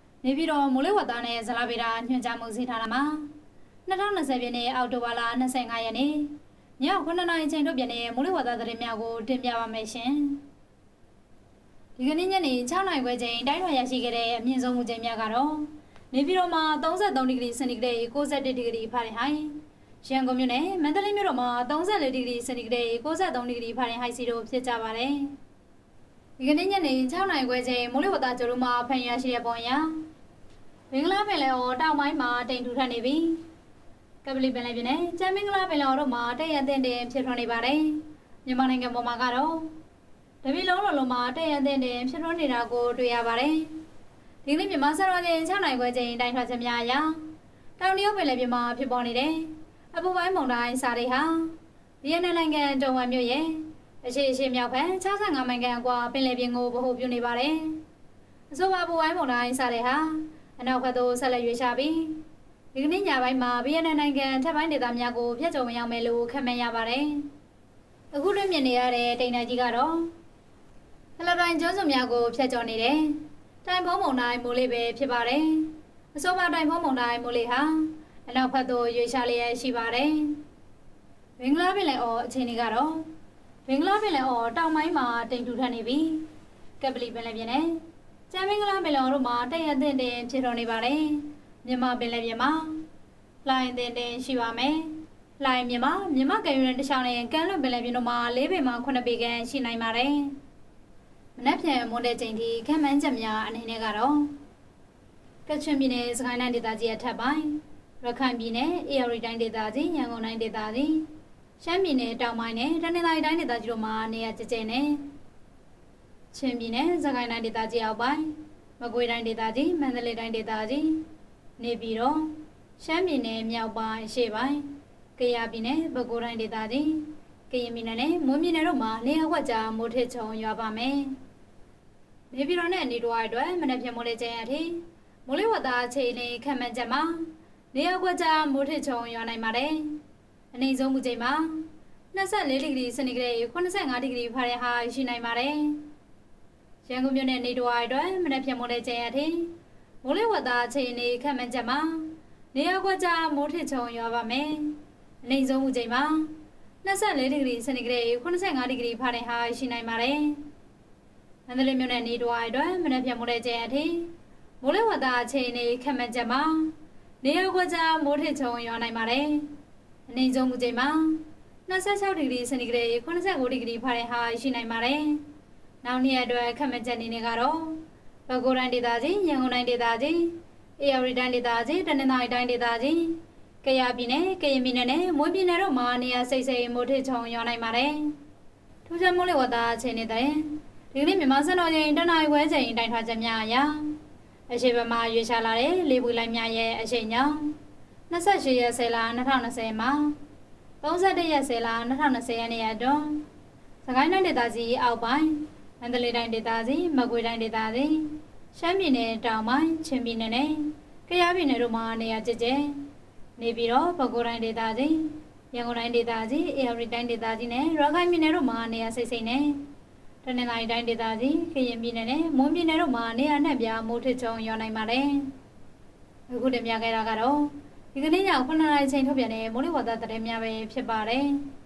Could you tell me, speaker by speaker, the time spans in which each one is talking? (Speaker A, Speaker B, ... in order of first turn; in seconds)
Speaker A: 0.2-3.3, 3.9-10.4, 12.0-25.3, 26.4-29.9, 30.9-33.4, 34.2-39.7, 40.4-43.7, 44.5-47.2, 47.8-57.8, 58.5-62.2, 62.7-67.2, 68.1-70.1, 71.2-80.4, 81.4-83.1, 83.7-86.2, 86.8-92.8, 93.4-100.3, 101.4-104.3, 105.5-111.1, 111.6-115.0, 116.3-121.0, 121.6-131.2, 132.3-139.9, 140.5-145.8, 146.8-149.5, 150.0-156.3, 156.8-160.4, 161.5-164.1, 164.6-169.5, 170.1-175.2, 175.8-188.1, 188.8-193.9, 194.5-197.5, 198.1-200.2, 200.8-203.2, 203.8-212.8, 213.4-219.6, 220.2-225.3, 226.3-231.4